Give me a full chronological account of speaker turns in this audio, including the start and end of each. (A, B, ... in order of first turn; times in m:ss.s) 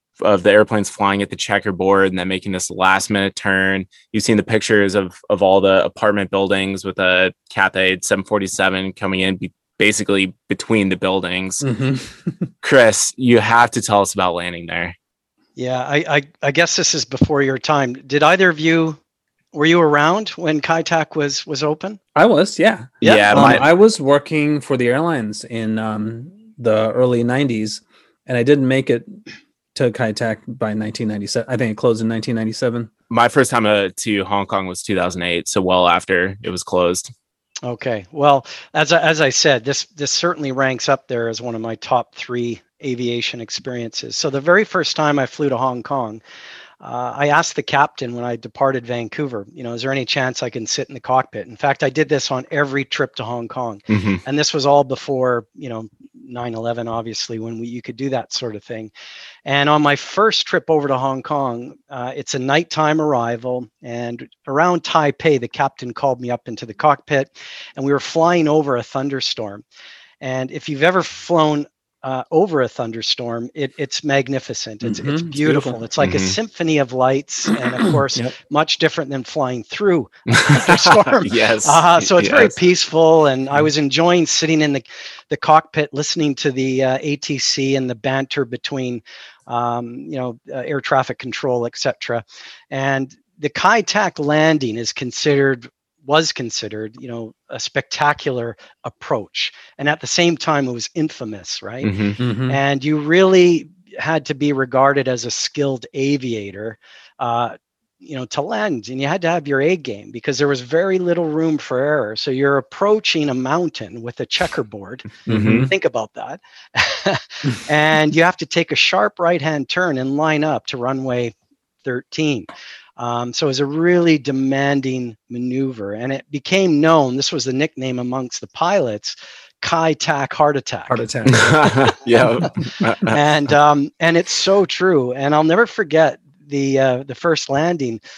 0:00.2-0:11.6 A
0:11.6-0:12.5 B
0:12.6-0:14.9 A
0:15.6-0:19.0 C
0:19.5-0:22.0 C
0:22.1-0:29.2 B
0:23.0-0:23.6 C
0:23.0-0:23.6 A
0:29.7-0:32.9 B
0:33.1-0:37.1 A
0:37.6-0:46.2 C
0:46.8-0:58.9 C
0:53.9-0:54.2 A
0:59.4-1:09.6 C
1:10.2-1:41.9 C
1:14.8-1:15.8 B
1:16.0-1:16.4 A
1:17.9-1:18.3 B
1:20.3-1:22.5 A
1:41.8-1:42.2 A
1:42.2-1:42.6 B
1:42.5-2:11.0 C
1:55.3-1:55.7 A
1:55.3-1:55.7 B
2:10.9-2:11.8 B
2:11.3-2:13.2 A
2:11.6-2:12.5 C
2:13.0-2:18.0 C